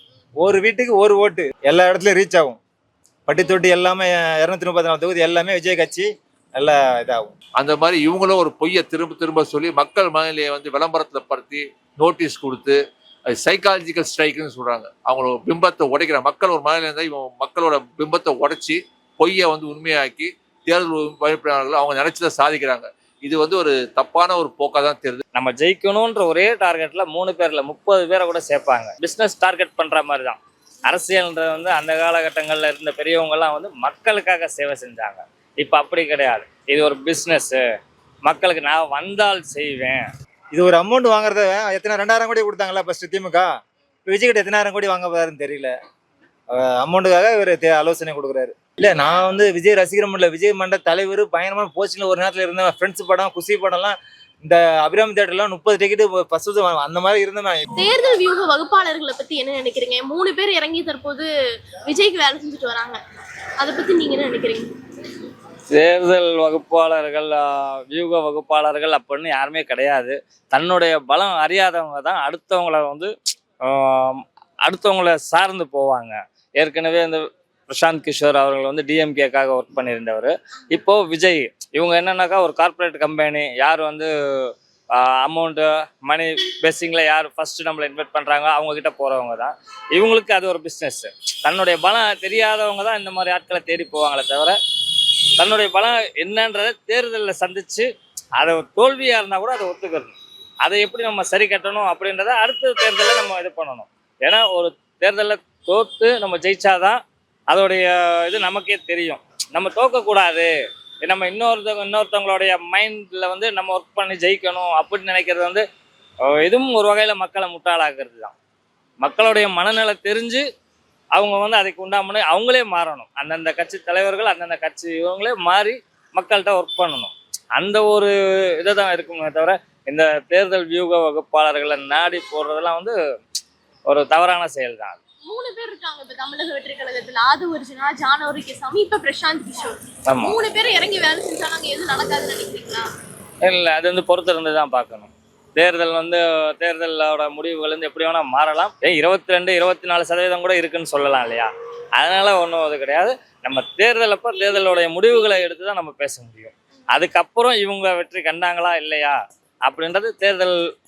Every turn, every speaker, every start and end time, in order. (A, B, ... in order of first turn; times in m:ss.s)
0:00.4-0:02.6 A
0:03.3-0:07.3 A
0:07.6-0:12.8 B
0:13.4-0:25.2 B
0:25.3-0:37.6 C
0:38.2-0:40.0 C
0:40.5-0:43.5 A
0:44.1-0:45.7 A
0:46.5-0:57.6 A
0:57.8-1:01.3 D
1:01.8-1:03.0 D
1:03.6-1:04.7 D
1:05.7-1:13.1 C
1:13.6-1:34.6 C
1:35.4-1:37.8 C
1:38.4-1:47.0 C
1:47.5-1:50.5 C
1:51.0-1:55.6 C
1:56.3-1:58.3 C
1:59.0-2:00.4 C
2:01.1-2:12.9 C
2:13.9-2:15.0 C
2:15.2-2:22.9 D
2:20.1-2:20.4 C
2:23.4-2:39.1 C
2:39.6-2:40.6 C